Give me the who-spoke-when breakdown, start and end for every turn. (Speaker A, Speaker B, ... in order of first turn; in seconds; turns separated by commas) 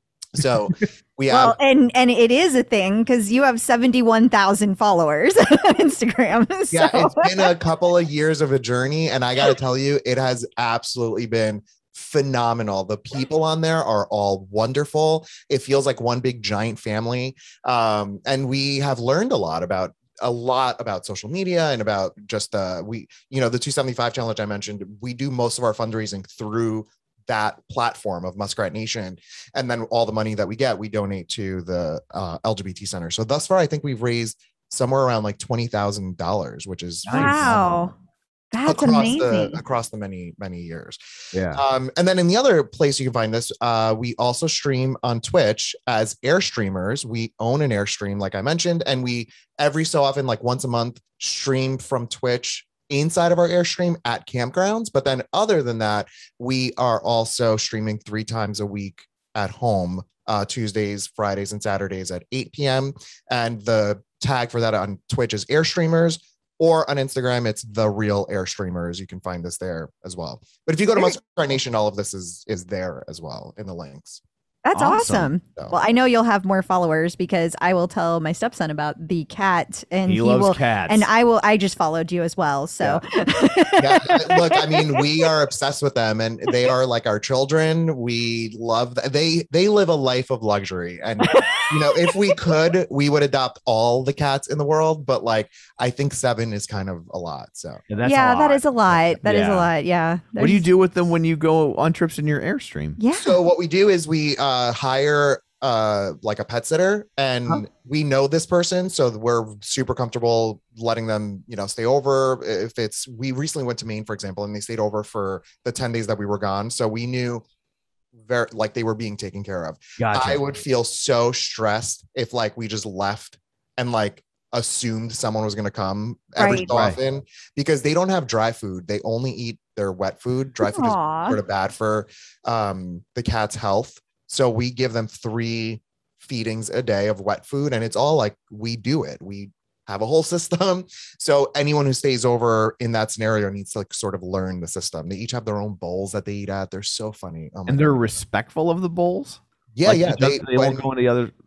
Speaker A: 0.3-1.6, Speaker B: 1.3-7.5, Speaker A: 6.7-37.9, Speaker C: 37.0-37.6, Speaker B: 37.1-37.9, Speaker B: 38.5-39.6, Speaker A: 38.6-41.0, Speaker C: 41.3-41.6, Speaker A: 41.5-74.2, Speaker B: 74.7-85.0, Speaker C: 74.7-75.3, Speaker C: 80.1-81.1, Speaker A: 83.8-97.8, Speaker B: 91.3-91.6, Speaker C: 97.9-99.7, Speaker B: 98.0-100.6, Speaker C: 100.4-103.0, Speaker B: 103.0-103.4, Speaker A: 103.2-117.4, Speaker A: 118.2-148.1, Speaker C: 120.0-120.4, Speaker B: 126.4-126.7, Speaker C: 126.7-127.0, Speaker B: 130.7-131.4, Speaker C: 147.7-151.3, Speaker A: 149.8-150.9